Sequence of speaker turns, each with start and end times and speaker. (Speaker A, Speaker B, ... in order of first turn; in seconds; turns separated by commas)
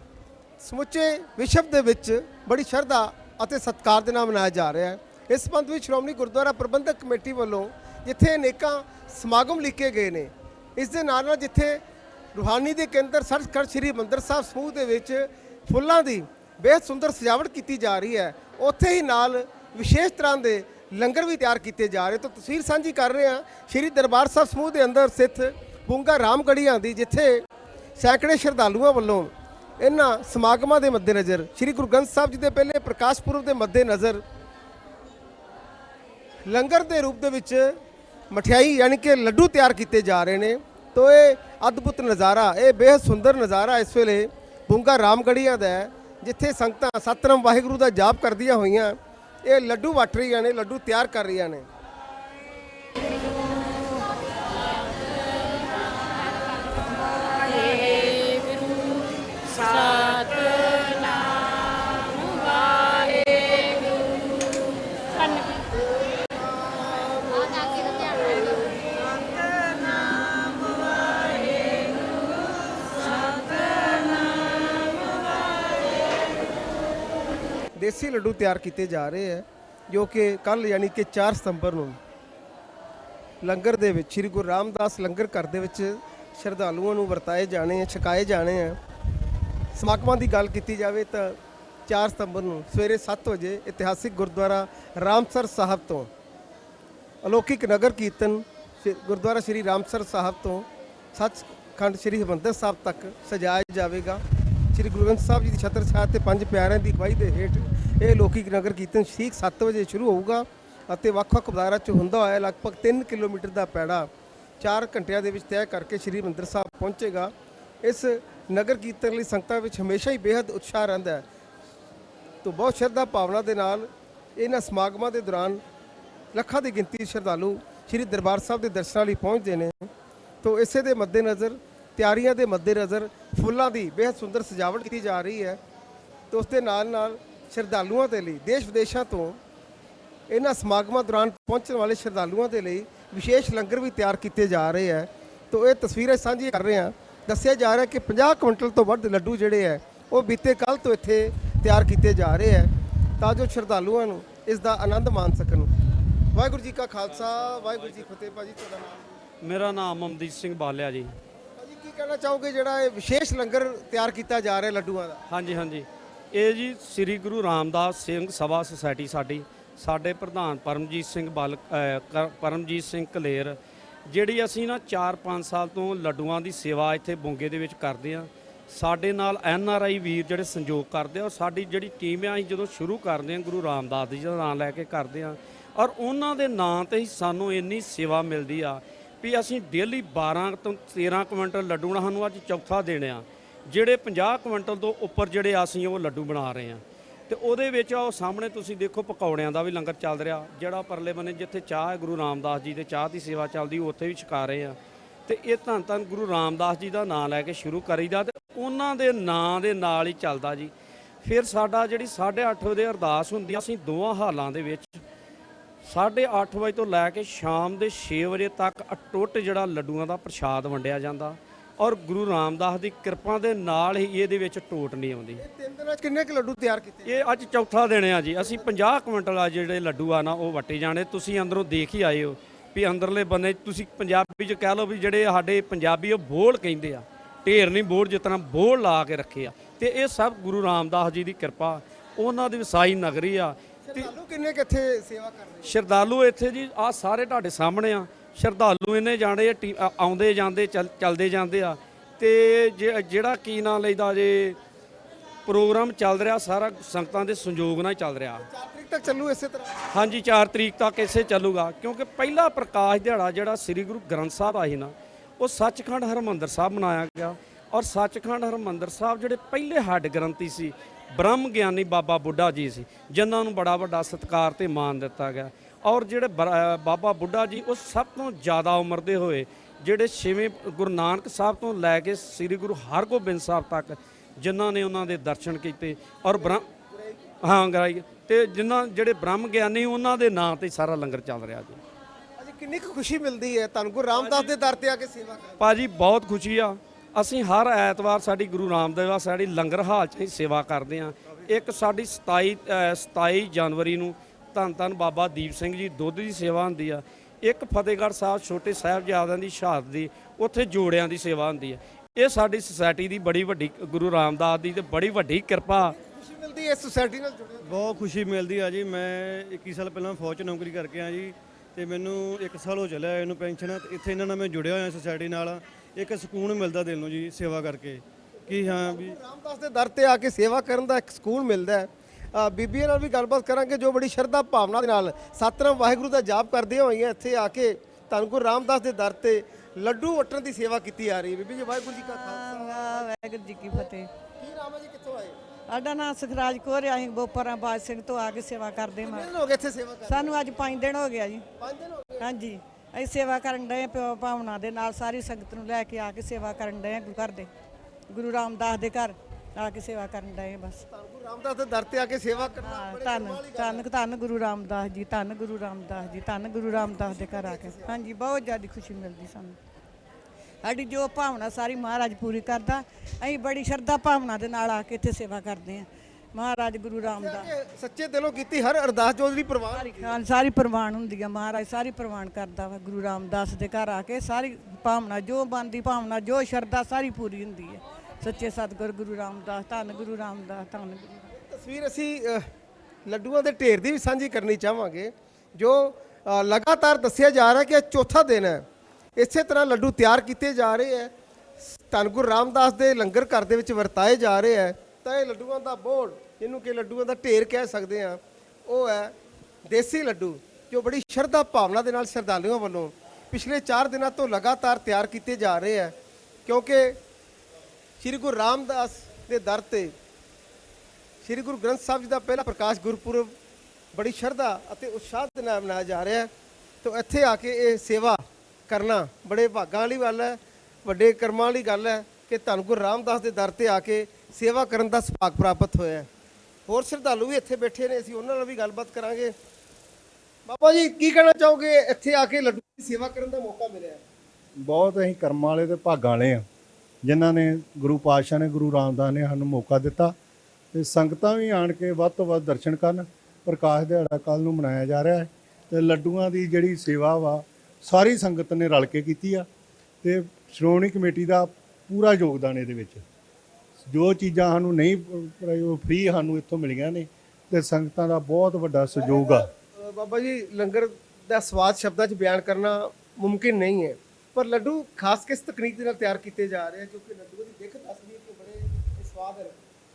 Speaker A: 0.6-11.8, Speaker A: 12.3-27.4, Speaker A: 28.0-34.2, Speaker A: 36.5-37.7, Speaker A: 38.3-51.7, Speaker A: 59.5-60.5, Speaker A: 65.5-71.7, Speaker A: 72.8-73.2, Speaker A: 77.8-82.0, Speaker A: 83.4-88.8, Speaker A: 89.7-96.1, Speaker A: 97.2-121.2, Speaker A: 122.4-125.6, Speaker A: 126.3-129.9, Speaker A: 130.4-135.6, Speaker A: 136.3-139.4, Speaker A: 140.3-155.7, Speaker A: 156.3-159.1, Speaker B: 157.2-158.0, Speaker B: 159.4-161.2, Speaker A: 161.6-165.2, Speaker B: 165.3-215.0, Speaker B: 215.8-225.4, Speaker A: 225.4-227.3, Speaker B: 227.1-244.1, Speaker A: 228.3-228.7, Speaker A: 243.9-245.8, Speaker B: 245.6-254.6, Speaker B: 255.4-258.4, Speaker A: 258.4-259.8, Speaker B: 259.9-286.6, Speaker A: 286.3-287.3, Speaker B: 287.4-291.8, Speaker A: 292.4-295.6, Speaker B: 294.1-294.5, Speaker B: 295.6-315.9, Speaker A: 315.8-317.7, Speaker C: 317.6-329.2, Speaker A: 328.5-343.1, Speaker D: 342.1-344.1, Speaker A: 344.4-345.4, Speaker D: 345.7-349.3, Speaker A: 349.0-350.4, Speaker D: 350.0-351.4, Speaker A: 351.6-352.2, Speaker D: 352.2-357.5, Speaker D: 358.1-360.8, Speaker A: 360.9-363.8, Speaker D: 362.6-369.6, Speaker A: 366.7-367.9, Speaker D: 370.6-377.5, Speaker A: 377.0-380.2, Speaker D: 379.7-391.3, Speaker A: 391.3-392.4, Speaker A: 393.1-398.6, Speaker A: 399.1-401.1, Speaker A: 401.6-409.1, Speaker A: 409.6-415.9, Speaker A: 416.4-417.0, Speaker A: 418.0-419.9, Speaker A: 421.2-423.3, Speaker A: 423.9-426.3, Speaker A: 426.8-436.1, Speaker A: 436.7-439.3, Speaker A: 440.4-444.0, Speaker E: 444.6-446.4, Speaker E: 447.0-450.1, Speaker E: 450.7-459.5, Speaker E: 460.0-463.0, Speaker E: 463.8-469.5, Speaker A: 469.0-479.6